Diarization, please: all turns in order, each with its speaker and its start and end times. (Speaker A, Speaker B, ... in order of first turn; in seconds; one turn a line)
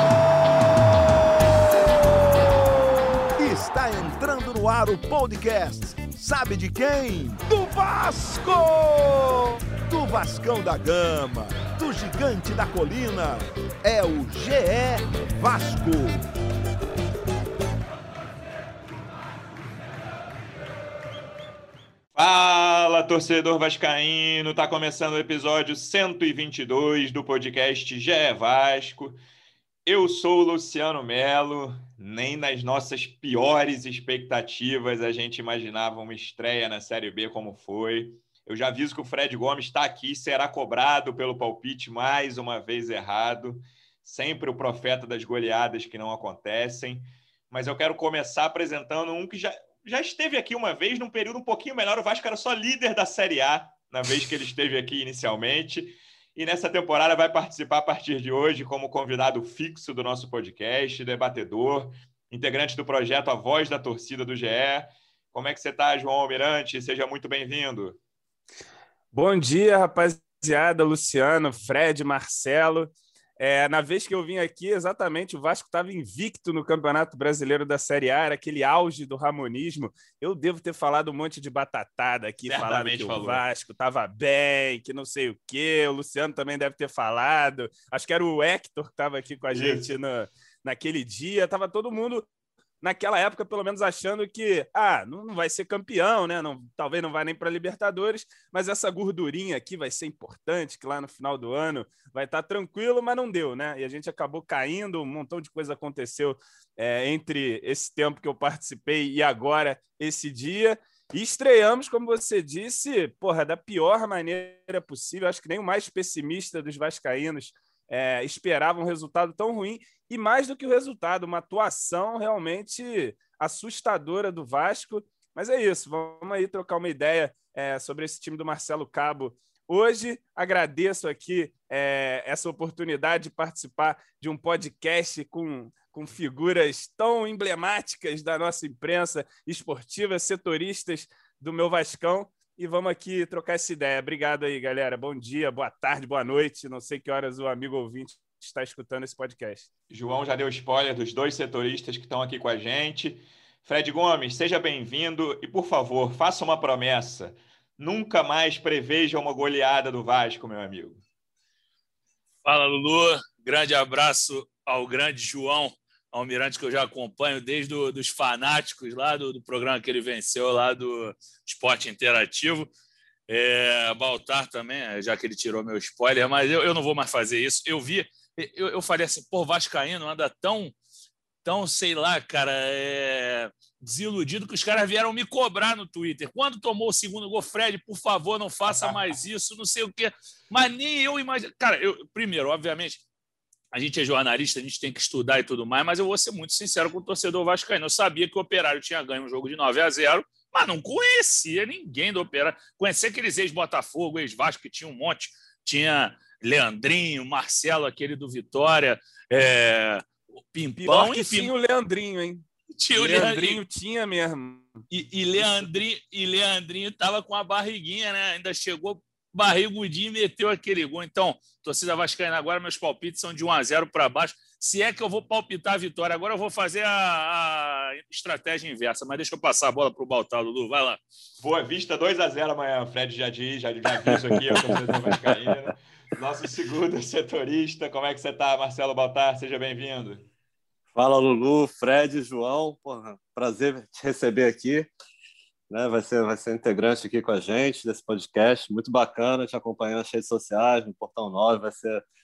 Speaker A: 2.1-2.8
Speaker A: 3.4-16.2
Speaker B: 22.1-29.2
Speaker B: 29.9-68.0
Speaker C: 69.1-92.3
Speaker B: 82.5-83.4
Speaker B: 89.5-89.9
Speaker C: 92.8-149.7
Speaker B: 149.9-161.0
Speaker D: 162.4-172.7
Speaker D: 173.3-180.8
Speaker D: 181.4-193.0
Speaker B: 188.7-189.0
Speaker D: 193.7-211.5
Speaker C: 210.8-214.8
Speaker D: 212.8-213.6
Speaker D: 214.9-231.0
Speaker B: 231.4-240.3
Speaker E: 234.4-235.5
Speaker E: 240.9-244.9
Speaker E: 245.7-252.0